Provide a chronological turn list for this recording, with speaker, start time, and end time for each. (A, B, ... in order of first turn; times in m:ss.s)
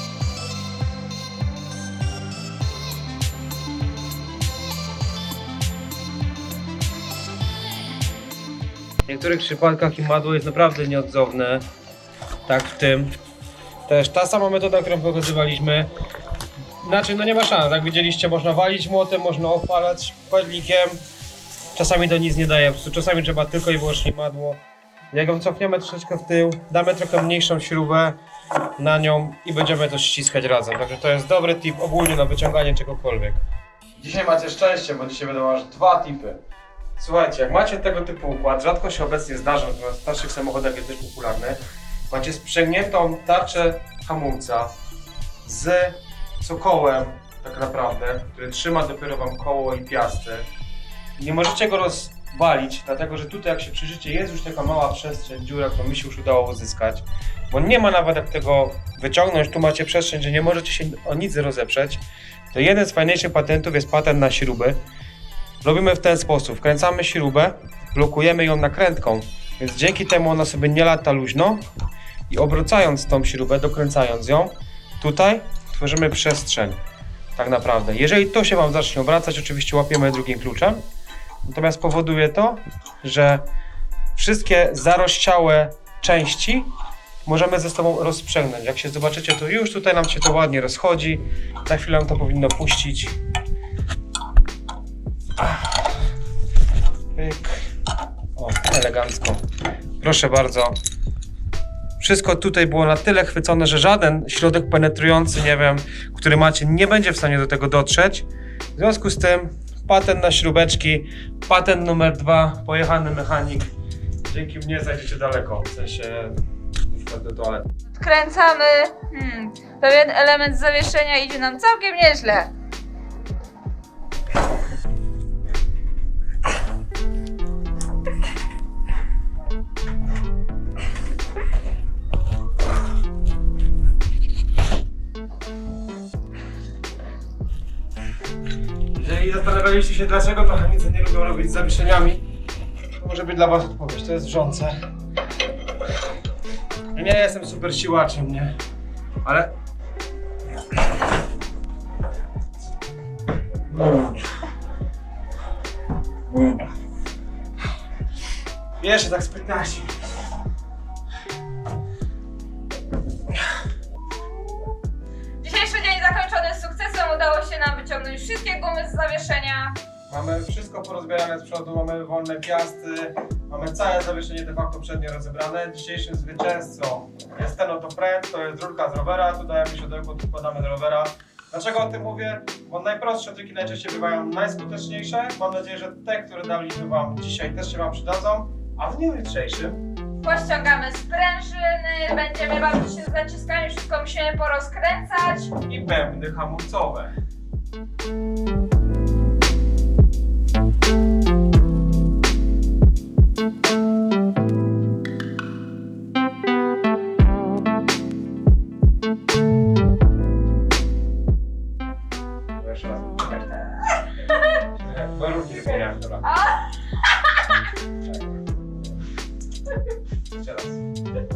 0:09.0-0:11.6 A
0:12.5-0:13.1 A
0:13.9-0:15.9 A
0:16.8-0:21.0 A
0:21.7-0:28.2 A
0:28.8-0:33.4 A
0:34.0-0:36.4 A
0:37.0-0:44.8 A
0:45.4-0:50.5 A
0:51.2-1:04.8 A
1:05.6-1:11.6 A
1:12.3-1:16.8 A
1:17.4-1:20.8 A
1:21.4-1:23.4 A
1:24.2-1:26.7 A
1:27.2-1:33.2 A
1:37.2-1:37.6 A
1:38.4-1:39.4 A
1:40.0-1:40.8 A
1:42.0-1:53.7 A
1:54.3-1:56.4 A
1:56.9-1:57.7 A
1:57.9-2:02.5 B
2:18.9-2:22.3 A
2:23.0-2:24.8 A
2:27.0-2:28.5 A
2:29.2-2:29.5 A
2:33.7-2:34.2 A
2:36.3-2:36.7 A
2:38.8-2:40.0 A
2:45.4-2:49.8 B
2:50.1-3:09.8 A
3:10.2-3:15.5 B
3:15.6-3:17.1 A
3:32.6-3:33.6 A
3:34.7-3:36.3 A
3:36.2-3:37.6 B
3:38.1-3:38.4 A
3:40.3-3:40.8 A